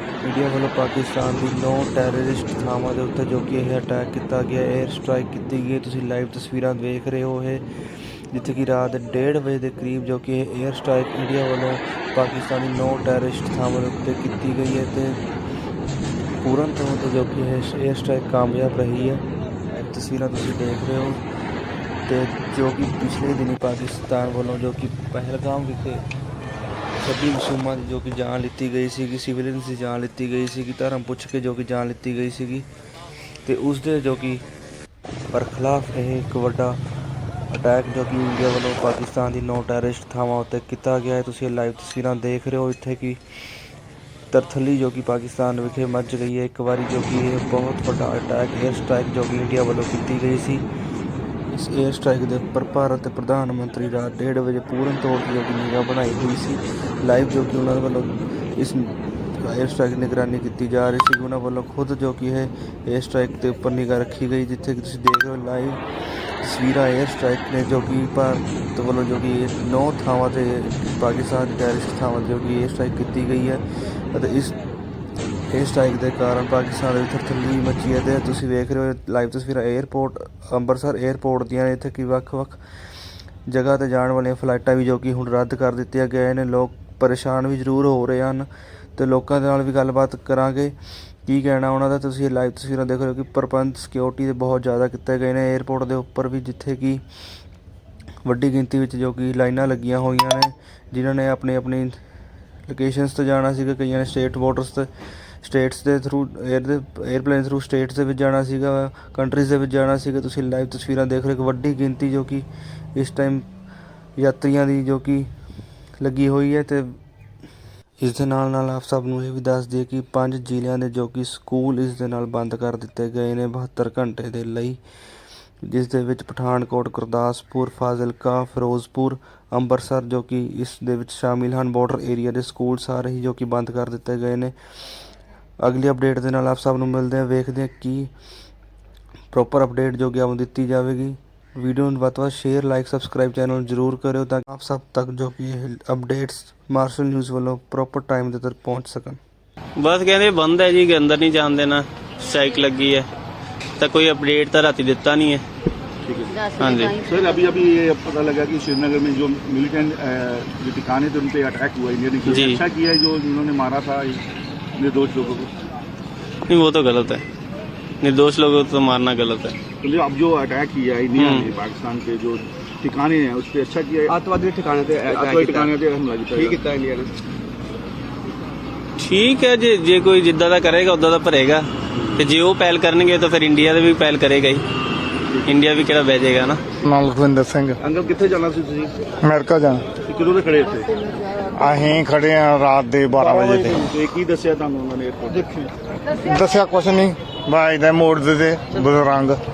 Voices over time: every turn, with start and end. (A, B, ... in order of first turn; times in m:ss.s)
0:00.2-0:07.6 A
0:08.3-0:15.2 A
0:16.4-0:21.2 A
0:22.1-0:26.0 A
0:27.0-0:32.7 A
0:33.4-0:34.4 A
0:35.3-0:36.8 A
0:37.5-0:43.2 A
0:44.3-0:50.6 A
0:51.5-1:05.8 A
1:06.4-1:14.6 A
1:15.5-1:22.6 A
1:23.5-1:30.8 A
1:31.3-1:37.0 A
1:38.2-1:42.0 A
1:42.7-1:44.9 A
1:45.4-1:53.5 A
1:54.2-1:55.3 A
1:56.0-1:57.0 A
1:58.0-2:04.8 A
2:05.6-2:14.5 A
2:15.6-2:18.1 A
2:19.3-2:29.2 A
2:29.8-2:33.1 B
2:33.8-2:35.4 B
2:36.0-2:44.2 C
2:36.6-2:37.0 B
2:42.2-2:42.6 B
2:44.8-2:45.5 C
2:46.5-2:47.2 B
2:48.0-2:49.6 B
2:49.8-2:54.2 C
2:51.2-2:51.5 B
2:54.1-2:55.8 D
2:54.9-2:56.6 C
2:56.3-2:57.1 D
2:59.0-3:01.7 B
3:02.2-3:04.6 B
3:05.5-3:06.6 B
3:06.8-3:07.8 E
3:07.8-3:09.0 C
3:09.2-3:09.9 E
3:10.0-3:10.9 C
3:11.5-3:13.9 E
3:13.8-3:15.7 C
3:16.2-3:19.4 E